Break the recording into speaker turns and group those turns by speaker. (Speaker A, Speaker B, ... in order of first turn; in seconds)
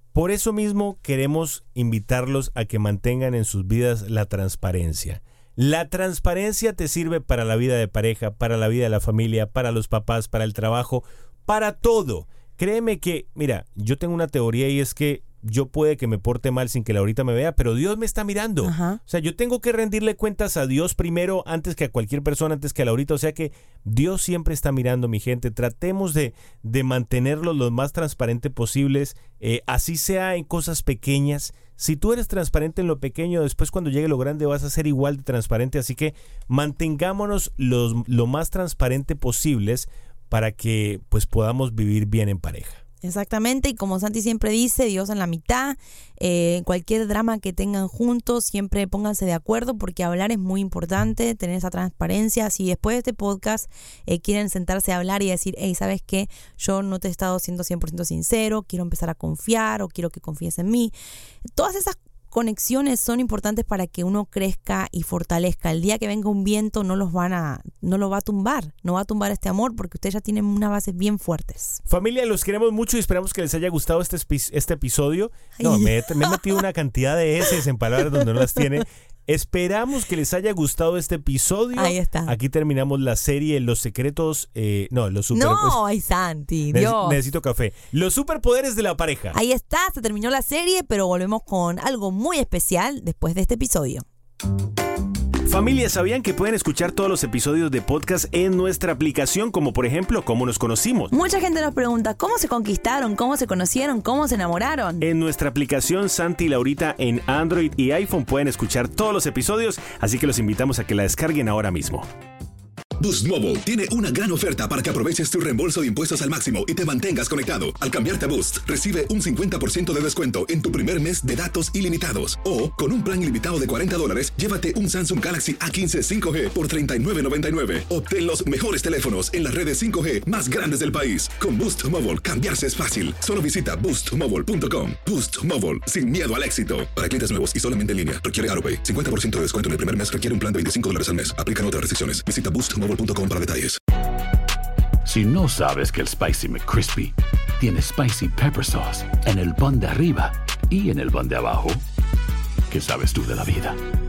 Speaker A: 0.1-42.8, 71.9-85.8, 86.7-89.4, 95.5-101.1, 105.0-112.1
Speaker B: 18.6-19.0, 43.0-61.0, 61.5-71.8, 75.6-76.4, 81.8-82.3, 85.3-87.2, 89.3-94.0, 101.1-105.0
Speaker C: 113.0-143.8
Speaker D: 145.0-151.8, 152.7-153.8